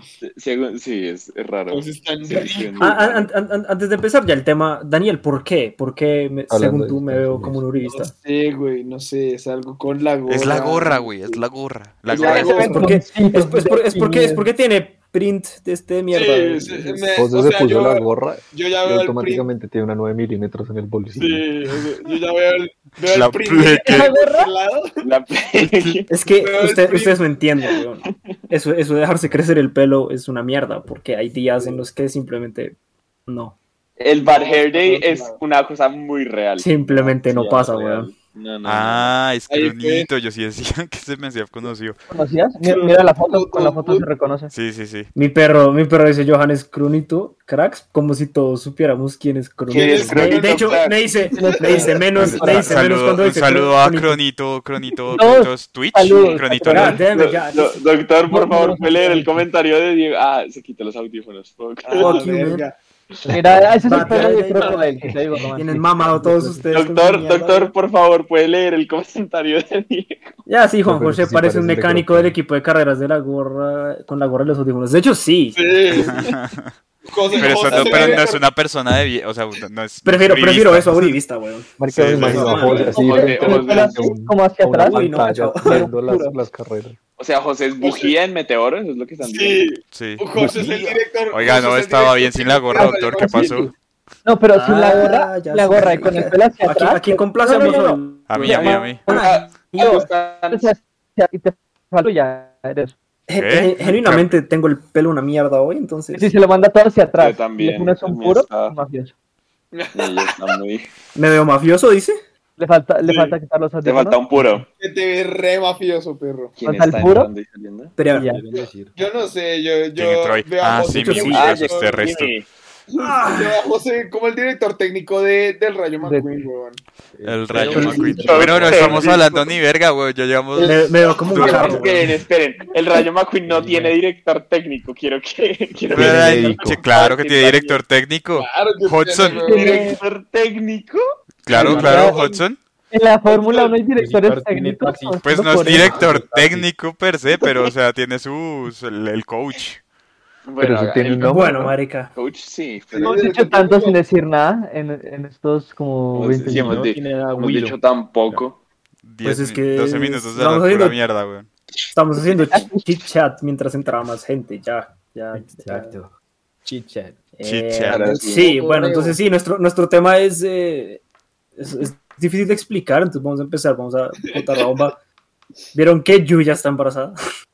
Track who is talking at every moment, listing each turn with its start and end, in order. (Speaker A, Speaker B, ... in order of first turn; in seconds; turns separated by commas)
Speaker A: 0.2-3.2, Speaker B: 1.7-3.0, Speaker C: 2.8-8.1, Speaker D: 6.5-7.6, Speaker B: 7.9-11.4, Speaker E: 10.2-12.7, Speaker B: 12.1-12.9, Speaker C: 12.2-17.1, Speaker F: 12.4-14.5, Speaker B: 16.1-19.4, Speaker D: 17.1-21.4, Speaker B: 21.1-24.9, Speaker E: 23.1-24.1, Speaker F: 23.8-24.5, Speaker A: 25.0-26.1, Speaker E: 25.7-26.0, Speaker C: 26.1-32.7, Speaker B: 26.3-27.2, Speaker C: 33.3-33.5, Speaker A: 34.0-39.2, Speaker B: 34.2-35.4, Speaker C: 36.6-38.1, Speaker E: 38.6-42.0, Speaker B: 39.5-40.1, Speaker F: 42.1-44.5, Speaker B: 42.6-44.1, Speaker E: 44.5-45.1, Speaker C: 45.1-54.2, Speaker B: 49.7-52.0, Speaker A: 49.7-51.5, Speaker F: 51.3-52.8, Speaker E: 52.2-57.0, Speaker F: 55.1-57.0, Speaker C: 56.6-57.8, Speaker A: 57.1-62.2, Speaker F: 58.3-59.4, Speaker B: 61.8-62.7, Speaker C: 62.0-62.6, Speaker D: 63.3-64.1, Speaker F: 63.3-66.7, Speaker C: 63.9-67.7, Speaker A: 66.7-70.3, Speaker C: 70.5-75.7, Speaker D: 70.8-72.3, Speaker B: 75.5-76.3, Speaker E: 75.9-76.7, Speaker B: 77.0-78.5, Speaker E: 77.3-81.2, Speaker A: 77.7-77.9, Speaker C: 80.0-82.9, Speaker D: 81.8-87.0, Speaker E: 81.9-82.6, Speaker A: 82.6-84.1, Speaker B: 82.7-83.8, Speaker F: 82.9-86.4, Speaker C: 84.7-85.8, Speaker A: 87.2-89.7, Speaker B: 87.8-88.1, Speaker B: 89.2-93.7, Speaker E: 89.9-90.5, Speaker E: 91.3-93.7, Speaker F: 92.8-93.7, Speaker F: 94.2-98.9, Speaker C: 94.5-100.1, Speaker E: 98.3-99.0, Speaker A: 98.4-100.7, Speaker F: 99.8-102.9, Speaker C: 103.3-106.3, Speaker E: 103.3-104.3, Speaker F: 106.1-109.1, Speaker A: 107.2-108.7, Speaker B: 109.7-110.3, Speaker A: 109.9-110.9, Speaker C: 111.2-112.2, Speaker F: 112.6-114.6, Speaker B: 113.0-113.3, Speaker A: 113.8-114.6, Speaker B: 114.8-116.6, Speaker A: 116.6-118.0, Speaker F: 116.6-117.3, Speaker C: 118.0-118.3, Speaker F: 118.1-118.4, Speaker G: 118.2-118.9, Speaker B: 118.9-122.1, Speaker E: 120.0-122.3, Speaker C: 121.0-121.4, Speaker A: 121.3-122.5, Speaker B: 122.9-126.8, Speaker C: 123.0-123.6, Speaker G: 127.1-129.2, Speaker E: 127.2-131.8, Speaker C: 127.7-128.3, Speaker A: 128.2-129.1, Speaker B: 128.7-129.5, Speaker C: 130.6-132.1, Speaker A: 131.3-137.8, Speaker B: 131.4-131.6, Speaker G: 133.4-133.9, Speaker D: 135.9-136.8, Speaker E: 135.9-139.5, Speaker B: 138.3-139.9, Speaker F: 139.4-140.0, Speaker A: 139.4-141.0, Speaker E: 141.4-142.6, Speaker G: 141.5-142.1, Speaker F: 141.6-142.2, Speaker B: 141.9-142.2, Speaker F: 142.9-146.0, Speaker B: 143.2-143.8, Speaker G: 143.9-146.7, Speaker E: 145.2-149.8, Speaker A: 150.5-151.6, Speaker D: 150.6-151.7, Speaker C: 151.2-152.1, Speaker A: 152.1-153.2, Speaker B: 152.9-154.0, Speaker F: 153.0-156.8, Speaker A: 156.1-158.6, Speaker G: 156.4-157.8, Speaker E: 159.0-161.5, Speaker C: 159.2-161.0, Speaker C: 161.9-165.9, Speaker D: 165.6-166.1, Speaker G: 166.6-167.2, Speaker C: 167.4-171.0, Speaker E: 167.4-168.1, Speaker A: 167.9-168.5, Speaker G: 168.0-169.2, Speaker C: 171.6-174.9, Speaker C: 175.7-177.1